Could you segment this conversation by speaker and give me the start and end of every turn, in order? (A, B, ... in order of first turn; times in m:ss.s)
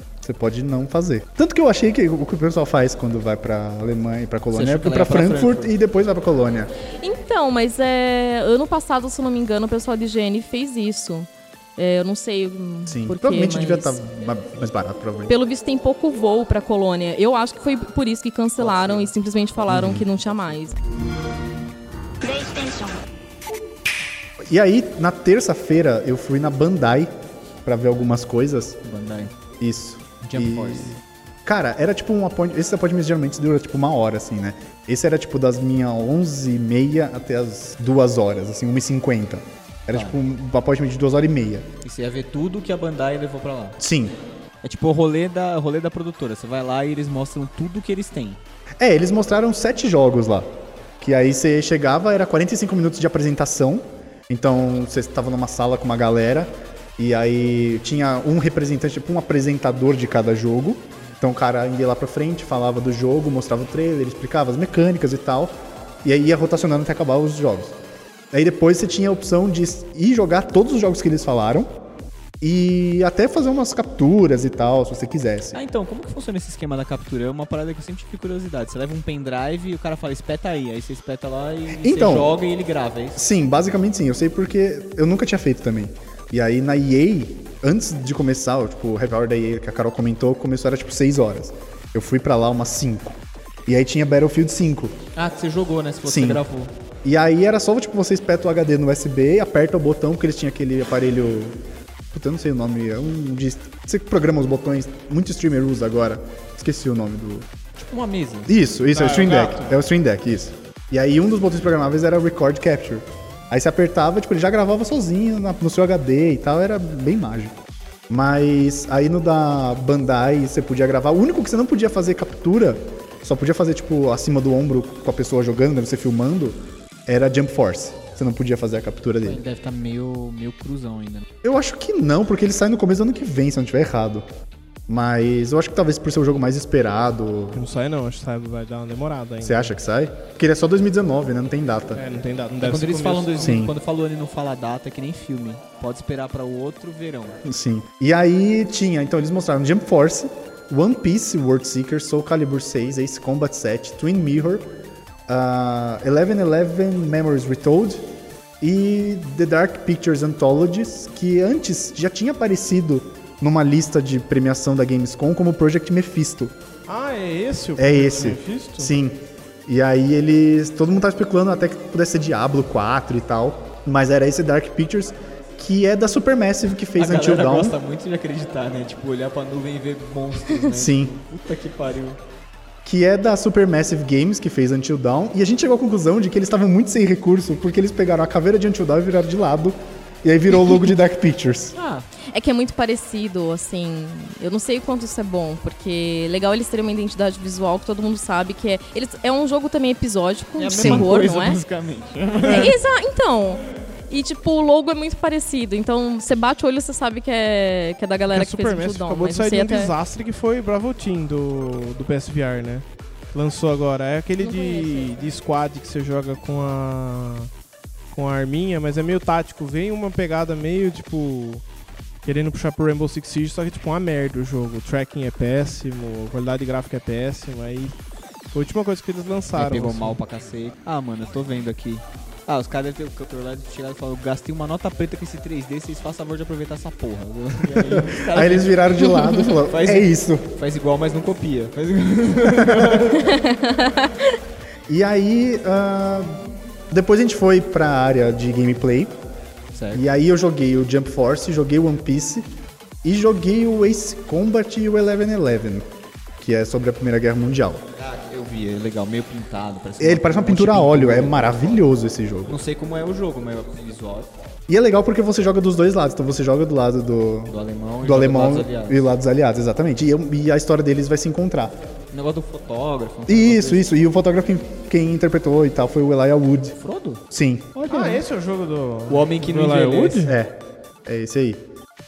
0:00.2-0:06.7 A
0:04.5-0:05.7 B
0:07.0-0:14.0 C
0:12.9-0:15.3 A
0:15.3-0:20.8 C
0:18.6-0:19.1 B
0:19.7-0:20.0 A
0:22.4-0:22.8 C
0:24.5-0:27.1 A
0:27.6-0:28.8 A
0:28.8-0:29.3 B
0:29.6-0:41.7 A
0:30.2-0:31.0 B
0:39.9-0:40.2 B
0:41.8-0:43.8 B
0:43.8-0:44.2 A
0:44.6-0:48.4 B
0:48.8-1:07.8 A
1:08.3-1:11.7 A
1:12.4-1:15.6 A
1:15.5-1:23.2 B
1:21.8-1:22.3 A
1:23.2-1:35.0 A
1:35.1-1:36.7 B
1:36.0-1:36.4 A
1:37.0-1:41.6 A
1:42.1-1:47.5 A
1:47.8-1:48.5 B
1:48.5-1:57.5 A
1:48.9-1:49.8 D
1:58.1-2:09.4 A
2:09.2-2:11.3 B
2:11.4-2:14.2 A
2:14.9-2:17.6 A
2:17.5-2:19.7 D
2:19.4-2:22.0 A
2:21.9-2:23.5 D
2:22.6-2:27.4 B
2:23.4-2:23.7 A
2:27.4-2:34.7 A
2:35.3-2:38.0 A
2:38.6-2:46.5 A
2:46.9-2:48.9 D
2:47.8-2:57.8 A
2:57.0-3:02.2 B
3:00.7-3:01.1 A
3:02.8-3:11.7 A
3:11.7-3:12.0 B
3:12.3-3:21.6 C
3:20.6-3:22.8 B
3:20.8-3:21.1 A
3:22.4-3:29.9 C
3:28.3-3:37.5 D
3:34.4-3:35.1 C
3:38.1-3:41.6 D
3:42.2-3:47.9 D
3:48.5-3:50.2 D
3:49.5-3:58.7 B
3:57.7-4:00.5 A
3:59.1-3:59.5 C
3:59.5-4:03.4 B
4:02.5-4:03.1 A
4:03.3-4:04.1 C
4:04.9-4:09.2 A
4:09.7-4:10.0 B
4:09.9-4:12.5 A
4:13.0-4:15.9 A
4:16.4-4:17.8 A
4:18.0-4:21.8 B
4:20.0-4:22.6 A
4:22.5-4:24.3 B
4:24.7-4:31.7 A
4:27.5-4:29.0 B
4:32.1-4:33.9 B
4:33.3-4:36.8 A
4:36.8-4:37.2 B
4:37.3-4:37.8 A
4:37.8-4:38.2 B
4:37.8-4:40.3 D
4:39.1-4:40.3 B
4:40.2-4:41.6 A